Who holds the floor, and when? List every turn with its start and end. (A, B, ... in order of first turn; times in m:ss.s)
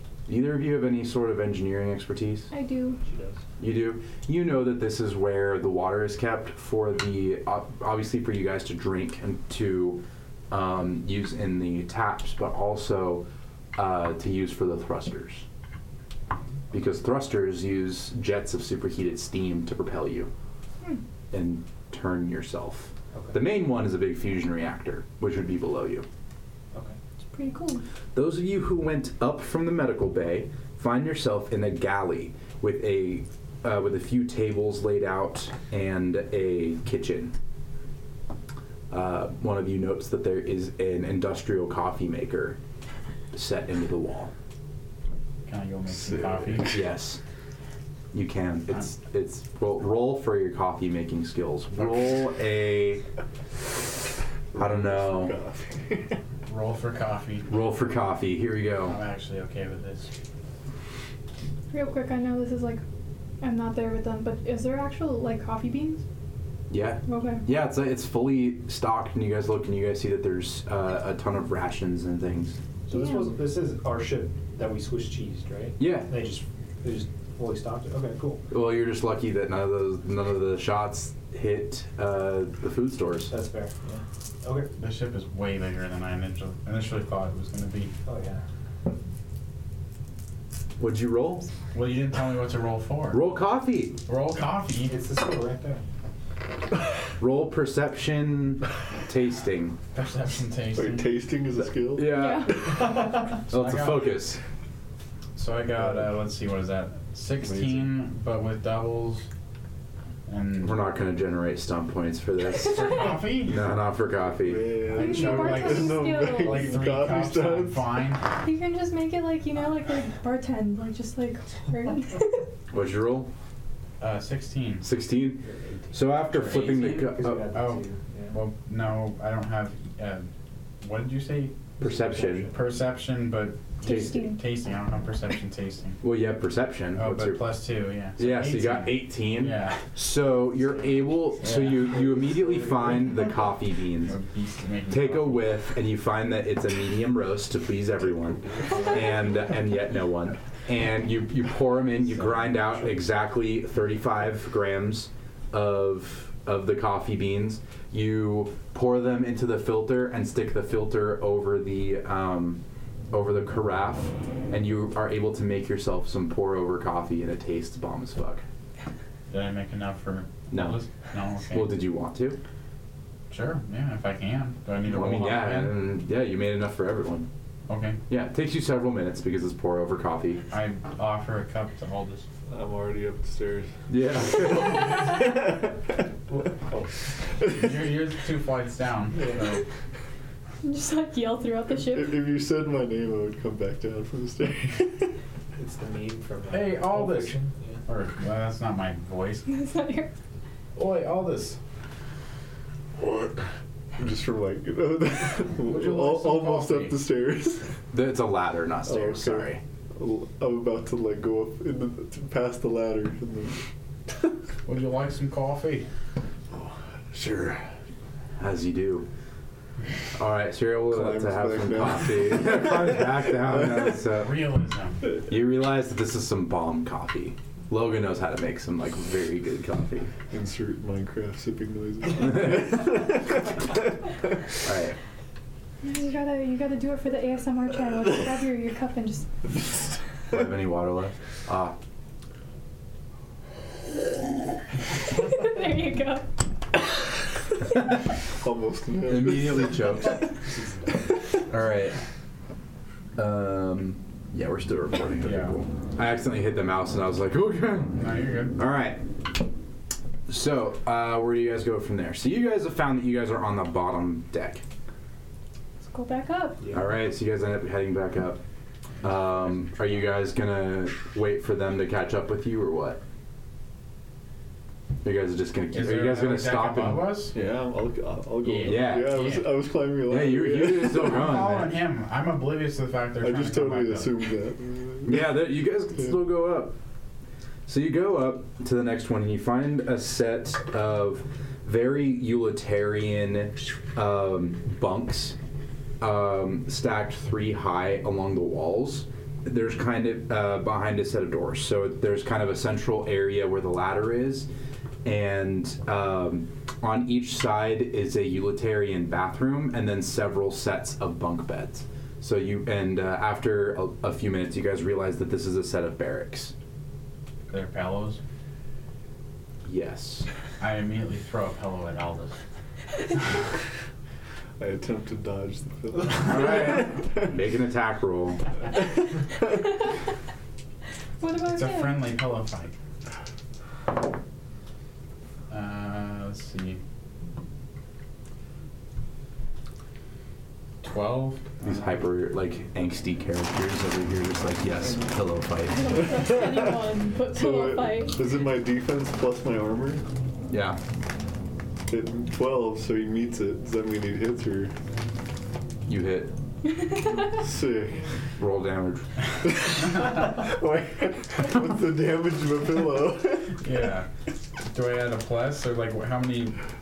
0:00.3-0:02.5 A
0:02.5-0:03.0 B
0:03.0-0:03.4 C
0:03.6-0:15.4 A
0:16.7-0:20.3 A
0:21.3-0:26.0 A
0:26.7-0:27.0 C
0:27.3-0:27.8 B
0:28.1-0:37.3 A
0:38.9-0:42.6 A
0:43.3-0:44.3 A
0:45.4-0:46.8 D
0:46.6-0:47.2 A
0:48.1-0:53.0 A
0:54.5-0:56.2 E
0:54.5-0:55.3 A
0:56.4-0:57.5 D
0:57.5-0:59.0 A
0:58.8-1:00.1 D
1:01.7-1:02.8 B
1:03.4-1:06.0 B
1:06.7-1:12.6 A
1:07.0-1:07.4 B
1:12.9-1:18.4 C
1:12.9-1:13.3 B
1:15.8-1:16.1 A
1:18.5-1:23.3 A
1:23.3-1:24.7 C
1:24.8-1:27.9 D
1:28.0-1:28.4 C
1:30.8-1:31.4 A
1:31.7-1:33.3 D
1:33.1-1:34.0 A
1:34.1-1:34.9 D
1:34.9-1:35.8 C
1:37.2-1:39.8 A
1:39.9-1:41.1 D
1:40.7-1:42.5 E
1:41.9-1:42.9 A
1:42.0-1:42.8 B
1:42.7-1:43.4 C
1:43.5-1:44.2 D
1:43.5-1:44.4 A
1:45.4-1:49.3 D
1:47.4-1:47.8 E
1:50.3-1:50.8 D
1:50.6-1:54.8 A
1:52.7-1:53.7 D
1:54.4-1:57.8 E
1:54.9-1:58.2 D
1:54.9-1:56.7 B
1:58.4-2:02.5 B
2:02.7-2:03.3 A
2:04.0-2:04.8 D
2:04.8-2:07.5 A
2:05.5-2:05.8 C
2:06.3-2:10.3 D
2:06.6-2:08.4 C
2:10.8-2:11.6 D
2:11.8-2:12.5 A
2:11.8-2:12.8 C
2:12.5-2:16.0 D
2:13.8-2:14.4 B
2:16.0-2:17.4 A
2:16.9-2:19.8 D
2:18.2-2:24.2 A
2:21.4-2:22.0 D
2:22.3-2:22.9 C
2:24.0-2:25.5 D
2:24.9-2:42.6 A
2:43.1-2:48.4 A
2:49.3-2:51.8 D
2:50.5-2:50.8 A
2:51.5-2:52.4 A
2:53.3-2:55.7 D
2:54.8-2:57.3 A
2:57.7-2:58.0 D
2:58.1-3:00.4 A
3:00.5-3:02.2 D
3:02.5-3:03.7 E
3:03.9-3:05.0 A
3:06.3-3:06.9 C
3:07.5-3:09.6 D
3:09.2-3:09.4 C
3:10.6-3:12.1 B
3:11.9-3:15.1 E
3:15.6-3:17.8 C
3:16.5-3:19.5 D
3:19.5-3:20.1 B
3:20.8-3:21.6 D
3:23.0-3:23.4 E
3:24.0-3:27.7 E
3:25.6-3:27.0 D
3:27.9-3:29.6 A
3:28.8-3:33.6 E
3:34.6-3:35.9 D
3:36.5-3:37.6 E
3:38.4-3:39.1 A
3:40.2-3:44.4 A
3:40.9-3:43.0 E
3:43.8-3:45.0 D
3:45.3-3:50.1 A
3:50.3-3:53.8 E
3:54.6-3:55.0 A
3:55.8-3:59.3 B
4:00.3-4:01.7 A
4:05.0-4:06.2 B
4:08.3-4:10.1 E
4:09.0-4:10.3 A
4:10.5-4:11.0 C
4:11.5-4:12.0 A
4:13.2-4:19.0 A
4:15.2-4:15.5 D
4:18.0-4:18.5 D
4:20.3-4:24.6 A
4:25.8-4:26.6 B
4:26.7-4:28.4 A
4:29.0-4:33.0 A
4:35.0-4:37.2 A
4:35.7-4:37.3 D
4:37.3-4:41.3 E
4:38.4-4:39.6 D
4:38.6-4:39.2 A
4:40.1-4:41.7 A
4:40.9-4:44.2 D
4:43.2-4:45.4 E
4:45.0-4:46.8 A
4:47.6-4:55.4 A
4:56.0-5:04.5 A
5:05.0-5:16.5 A
5:17.5-5:18.2 D
5:19.6-5:20.3 A
5:20.6-5:22.3 D
5:24.6-5:27.0 E
5:26.2-5:28.4 A
5:31.2-5:32.0 B
5:31.4-5:32.7 D
5:35.5-5:36.8 D
5:40.8-5:41.9 D
5:41.6-5:46.0 A
5:45.7-5:48.2 B
5:46.3-5:46.5 E
5:47.3-5:50.0 E
5:50.5-5:50.8 A
5:51.9-5:54.7 E
5:55.9-5:56.4 A
5:56.7-5:57.4 B
5:57.2-5:58.1 E
5:58.4-5:59.1 A
5:59.4-6:03.6 E
6:03.6-6:04.1 D
6:04.6-6:06.6 D